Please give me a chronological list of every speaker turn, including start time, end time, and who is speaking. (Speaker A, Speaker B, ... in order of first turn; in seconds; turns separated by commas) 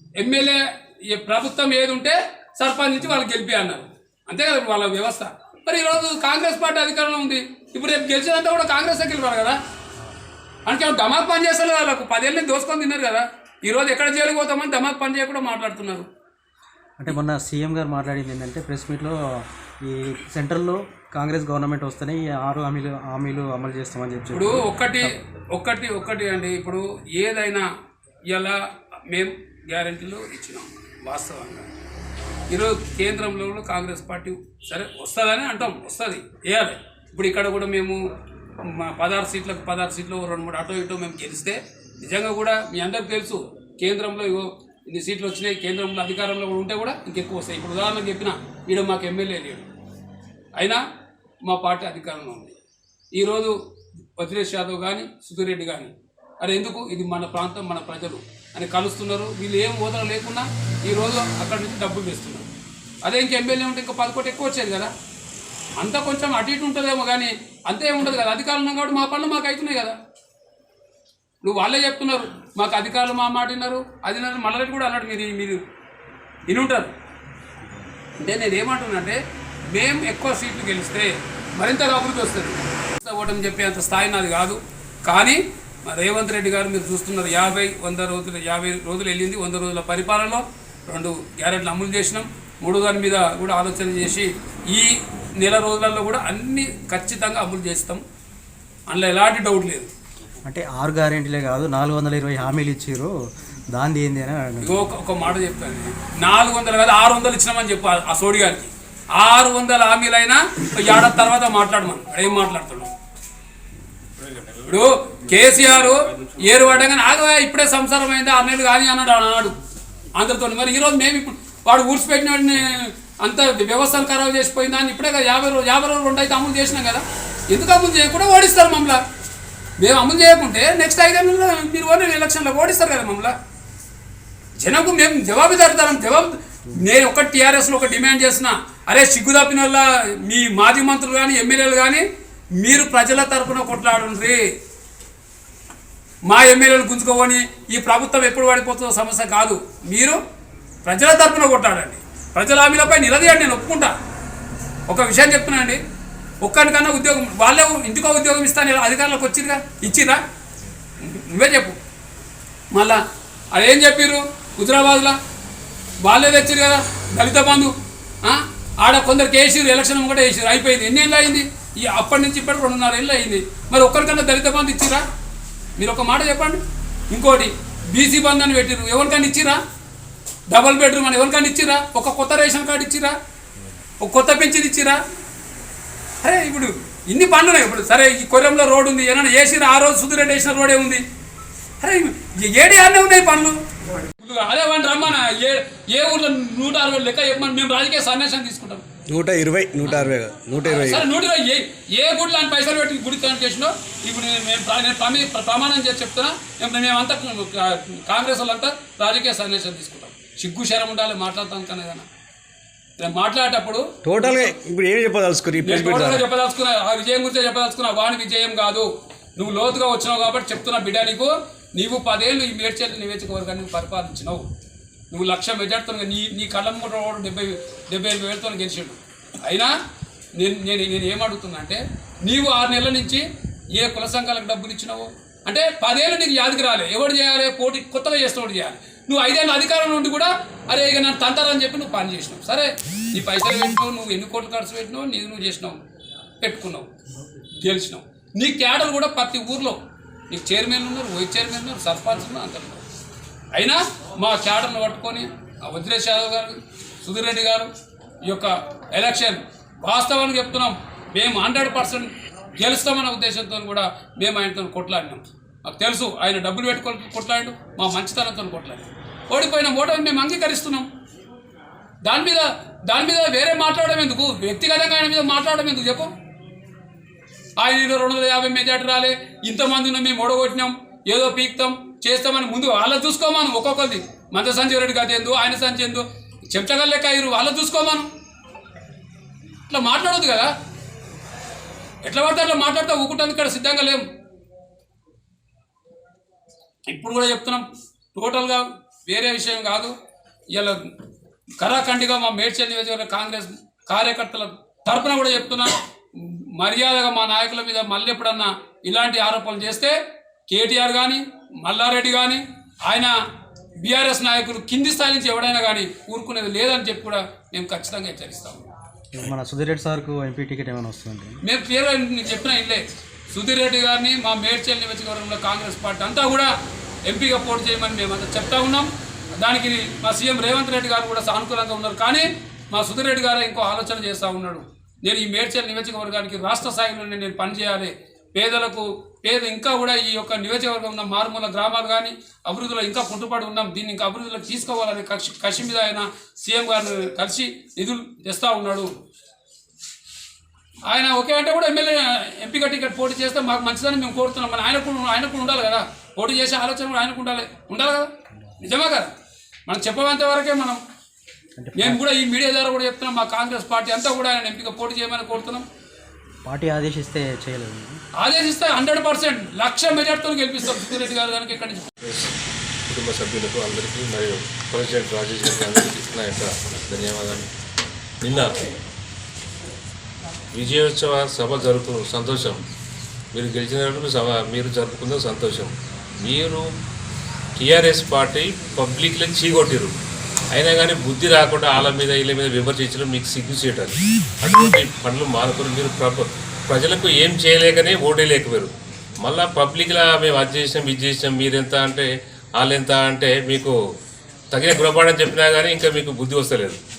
Speaker A: 0.2-9.6, Speaker A: 10.7-16.1, Speaker B: 17.0-25.1, Speaker A: 24.3-27.6, Speaker A: 28.3-31.7, Speaker A: 32.5-38.0, Speaker A: 38.6-49.7, Speaker A: 50.6-50.8, Speaker A: 51.5-52.5, Speaker A: 53.1-53.5, Speaker A: 54.2-62.5, Speaker A: 63.0-64.9, Speaker A: 65.8-70.0, Speaker A: 71.4-75.6, Speaker A: 76.5-76.9, Speaker A: 78.2-79.2, Speaker A: 79.7-98.0, Speaker A: 98.9-99.9, Speaker B: 100.5-103.1, Speaker B: 103.7-104.8, Speaker A: 104.6-112.9, Speaker A: 114.7-119.5, Speaker A: 120.2-129.0, Speaker A: 129.8-133.3, Speaker A: 134.6-142.0, Speaker A: 142.6-144.4, Speaker A: 146.3-150.2, Speaker A: 150.8-153.9, Speaker A: 154.9-155.8, Speaker A: 156.4-160.2, Speaker A: 161.0-161.8, Speaker A: 162.7-163.0, Speaker A: 163.5-165.2, Speaker A: 166.0-175.0, Speaker A: 175.8-176.6, Speaker A: 177.1-179.6, Speaker A: 180.5-183.2, Speaker A: 184.0-185.0, Speaker A: 186.2-191.0, Speaker A: 191.8-193.6, Speaker A: 194.2-198.8, Speaker C: 199.1-201.1, Speaker A: 200.7-212.1, Speaker A: 213.0-214.5, Speaker C: 214.0-216.2, Speaker A: 215.6-224.5, Speaker A: 225.1-229.7, Speaker A: 230.4-245.8, Speaker A: 246.4-246.9, Speaker A: 247.6-249.8, Speaker A: 250.3-252.8, Speaker A: 253.6-257.7, Speaker A: 258.2-270.9, Speaker A: 272.1-276.1, Speaker A: 277.6-288.1, Speaker A: 289.7-290.5, Speaker A: 292.1-294.0, Speaker A: 296.9-299.9, Speaker A: 300.5-300.8, Speaker A: 301.6-310.0, Speaker A: 310.5-313.1, Speaker A: 313.8-318.7, Speaker B: 319.1-321.4, Speaker A: 321.4-326.5, Speaker A: 327.1-348.9, Speaker A: 350.9-358.1, Speaker A: 358.6-359.1, Speaker A: 359.7-360.8, Speaker B: 361.6-362.0, Speaker A: 361.8-365.6, Speaker B: 366.4-368.0, Speaker A: 368.2-371.9, Speaker D: 372.0-372.3, Speaker D: 372.9-377.5, Speaker D: 378.2-378.5, Speaker D: 380.5-382.6, Speaker D: 383.3-386.7, Speaker D: 387.6-389.9, Speaker D: 390.5-398.7, Speaker D: 399.2-403.8, Speaker D: 404.5-406.8